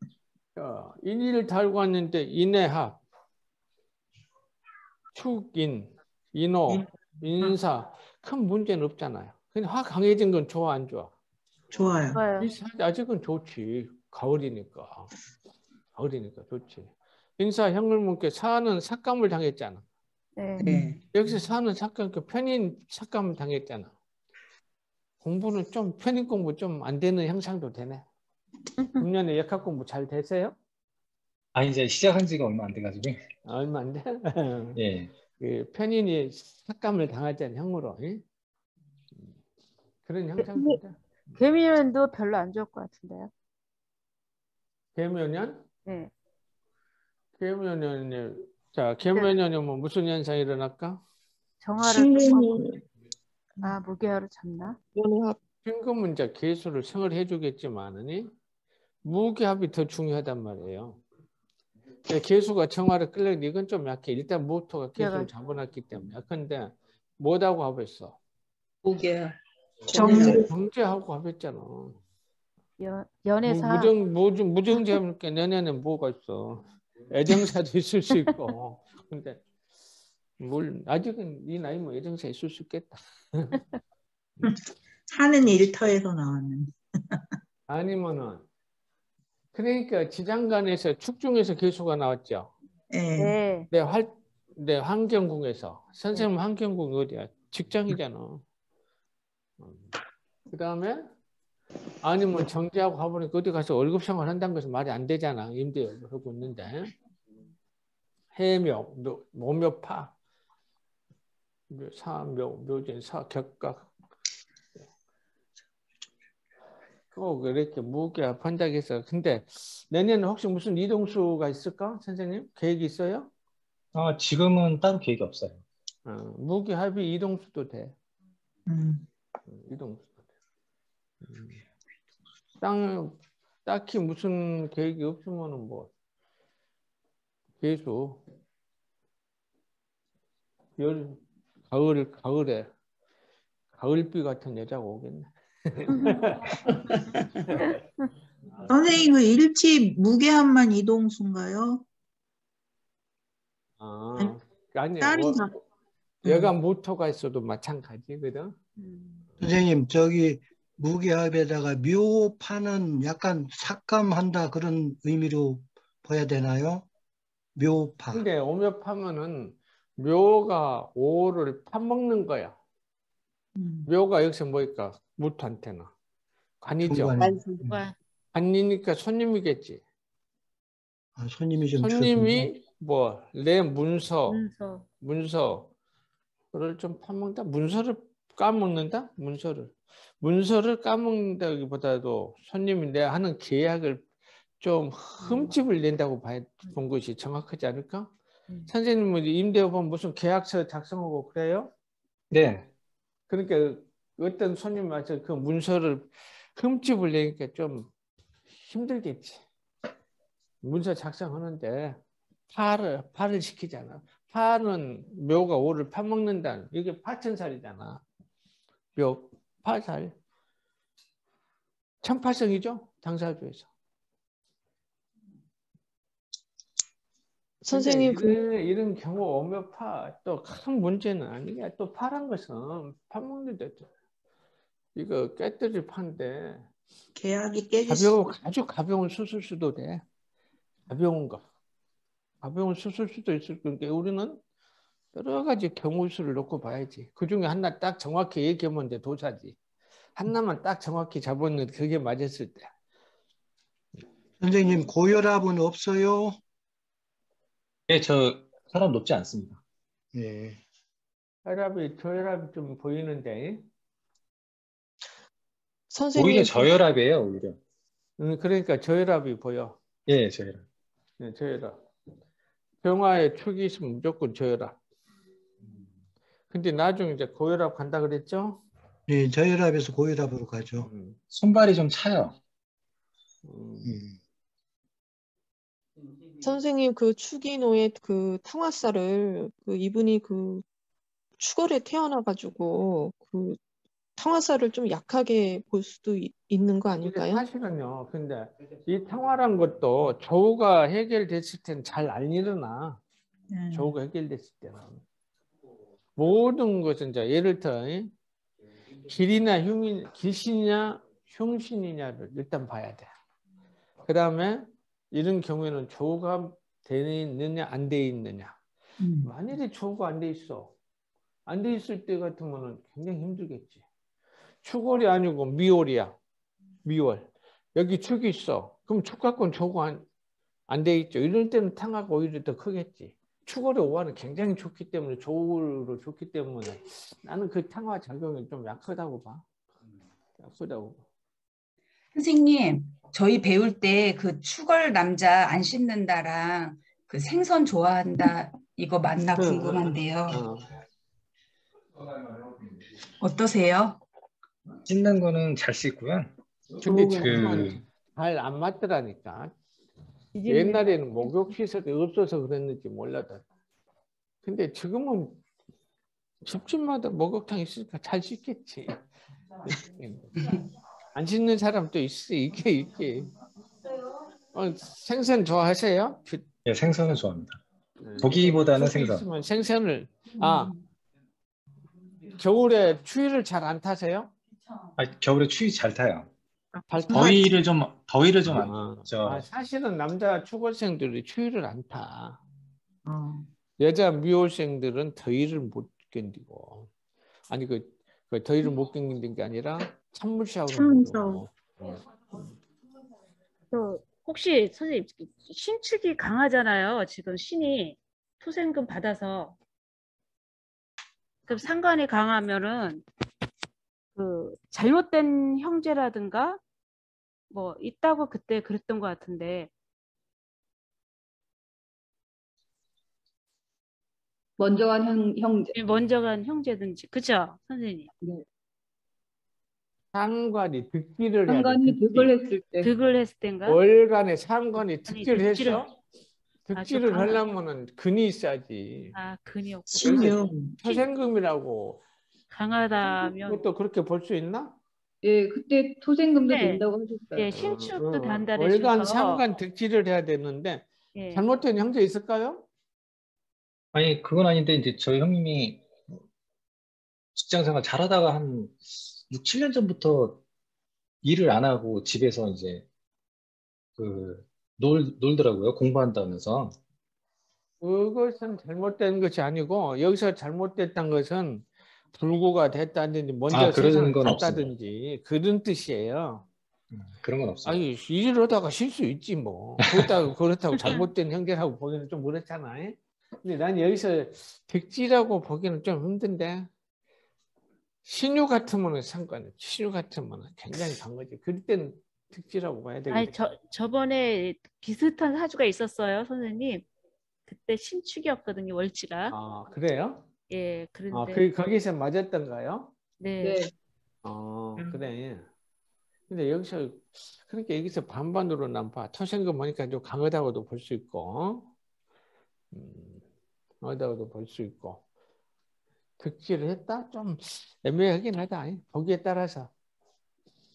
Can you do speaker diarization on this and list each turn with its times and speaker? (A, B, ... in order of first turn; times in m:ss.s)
0:00.6-0:03.0 A
0:05.2-0:11.1 A
0:11.7-0:12.2 B
0:12.1-0:12.5 C
0:12.4-0:15.1 A
0:16.0-0:19.8 A
0:20.4-0:20.7 C
0:20.6-0:21.0 B
0:21.1-0:23.9 A
0:25.2-0:28.0 A
0:28.8-0:29.0 C
0:29.0-0:30.6 A
0:31.5-0:33.2 D
0:33.5-0:34.8 A
0:34.8-0:35.1 D
0:35.4-0:38.2 A
0:40.0-0:41.0 A
0:41.4-0:43.3 C
0:45.0-0:45.6 A
0:45.9-0:46.1 C
0:47.4-0:51.0 A
0:51.6-0:52.6 C
0:52.0-0:52.6 B
0:53.6-0:54.8 C
0:55.0-0:55.4 E
0:55.6-0:58.3 A
0:59.0-1:01.0 A
1:02.1-1:08.2 A
1:05.0-1:05.3 C
1:09.9-1:10.5 B
1:09.9-1:12.0 A
1:12.8-1:13.9 C
1:13.4-1:19.4 A
1:20.4-1:23.6 A
1:25.1-1:27.2 B
1:27.7-1:28.5 A
1:29.5-1:32.5 A
1:32.9-1:33.4 B
1:33.2-1:33.7 C
1:33.7-1:38.4 A
1:39.6-1:39.9 A
1:40.5-1:41.1 A
1:42.0-1:46.9 A
1:48.4-1:50.1 A
1:51.7-1:53.9 A
1:57.1-2:03.3 A
2:03.9-2:05.6 D
2:06.1-2:07.9 A
2:08.7-2:09.0 B
2:09.5-2:10.2 A
2:11.2-2:11.6 A
2:12.6-2:15.9 A
2:17.6-2:18.2 A
2:20.8-2:22.7 A
2:23.7-2:26.7 A
2:27.4-2:27.8 A
2:28.7-2:31.8 B
2:33.8-2:35.4 A
2:35.0-2:35.6 B
2:36.2-2:36.5 B
2:36.2-2:38.6 A
2:38.8-2:39.2 C
2:39.4-2:46.9 F
2:47.6-2:48.2 F
2:48.1-2:52.6 A
2:53.6-2:53.9 B
2:53.9-2:55.9 A
2:56.6-2:57.2 A
2:56.8-2:57.7 F
2:57.6-2:57.9 C
2:58.3-2:59.8 A
3:01.2-3:02.5 F
3:01.8-3:04.4 A
3:04.3-3:04.9 C
3:05.0-3:05.7 A
3:06.5-3:14.1 A
3:14.6-3:18.1 A
3:15.2-3:15.5 C
3:18.7-3:21.7 A
3:22.3-3:22.7 D
3:23.3-3:27.9 A
3:28.6-3:29.4 A
3:30.6-3:32.0 A
3:32.5-3:38.0 A
3:39.0-3:40.1 A
3:42.0-3:43.7 A
3:47.6-3:48.4 E
3:47.7-3:53.9 A
3:55.0-3:56.7 A
3:57.2-3:58.2 B
3:57.9-4:00.0 A
4:00.9-4:01.4 A
4:02.4-4:04.4 A
4:05.1-4:09.6 A
4:10.2-4:12.7 A
4:14.4-4:16.4 F
4:17.9-4:19.6 D
4:20.1-4:20.6 F
4:21.4-4:23.6 A
4:25.9-4:26.7 E
4:26.2-4:27.6 D
4:28.2-4:29.8 A
4:30.1-4:30.7 D
4:31.2-4:31.8 A
4:32.8-4:34.8 A
4:36.5-4:38.6 A
4:39.1-4:40.9 F
4:40.8-4:41.2 A
4:41.3-4:42.4 D
4:43.4-4:44.0 A
4:43.8-4:44.1 F
4:46.4-4:50.6 E
4:51.4-4:53.6 E
4:54.2-4:57.4 E
4:57.0-5:03.0 A
5:03.5-5:03.9 B
5:03.7-5:05.0 A
5:06.2-5:08.1 A
5:09.1-5:13.1 A
5:14.0-5:18.6 A
5:19.0-5:19.3 B
5:19.2-5:20.7 A
5:21.5-5:23.8 A
5:24.6-5:26.2 A
5:26.8-5:30.0 A
5:30.7-5:39.4 A
5:40.4-5:41.0 A
5:42.1-5:50.4 G
5:49.4-5:50.7 A
5:53.2-5:54.0 G
5:54.8-5:57.8 D
5:56.8-5:59.5 A
5:56.8-5:57.7 B
6:00.4-6:00.8 C
6:00.5-6:03.4 A
6:04.4-6:05.4 A
6:06.4-6:09.0 A
6:09.6-6:10.3 A
6:11.2-6:13.3 A
6:14.5-6:16.5 A
6:16.6-6:17.6 D
6:18.0-6:20.7 A
6:18.2-6:19.3 D
6:22.4-6:24.3 A
6:25.0-6:26.3 D
6:26.8-6:27.5 B
6:26.9-6:27.4 A
6:27.1-6:29.4 D
6:28.5-6:32.4 A
6:33.1-6:33.5 B
6:33.8-6:36.9 A
6:37.5-6:42.0 A
6:40.7-6:41.4 B
6:43.7-6:49.6 C
6:51.5-6:53.0 C
6:54.2-6:56.6 C
6:57.5-6:59.7 C
7:04.6-7:05.8 H
7:05.8-7:08.1 C
7:10.1-7:12.4 A
7:11.5-7:12.9 H
7:12.8-7:13.8 C
7:13.7-7:16.0 A
7:15.1-7:15.8 C
7:16.7-7:19.2 A
7:16.7-7:17.4 C
7:19.1-7:20.3 C
7:19.9-7:20.8 B
7:20.0-7:22.0 A
7:22.5-7:23.6 C
7:23.4-7:24.8 A
7:25.2-7:27.5 H
7:26.5-7:29.4 C
7:27.5-7:32.7 A
7:31.2-7:31.4 C
7:33.9-7:35.9 D
7:37.4-7:40.4 D
7:41.2-7:42.9 D
7:44.0-7:46.8 D
7:47.8-7:56.5 A
7:53.5-7:54.7 D
7:56.9-7:57.8 D
7:57.6-8:06.7 A
8:08.0-8:13.4 A
8:13.1-8:16.9 C
8:17.5-8:19.4 C
8:19.3-8:20.3 A
8:20.5-8:21.5 C
8:21.1-8:22.9 A
8:23.2-8:23.6 C
8:23.4-8:23.7 H
8:24.2-8:25.5 A
8:26.3-8:31.7 A
8:32.7-8:33.2 A
8:33.8-8:35.0 A
8:36.2-8:39.7 A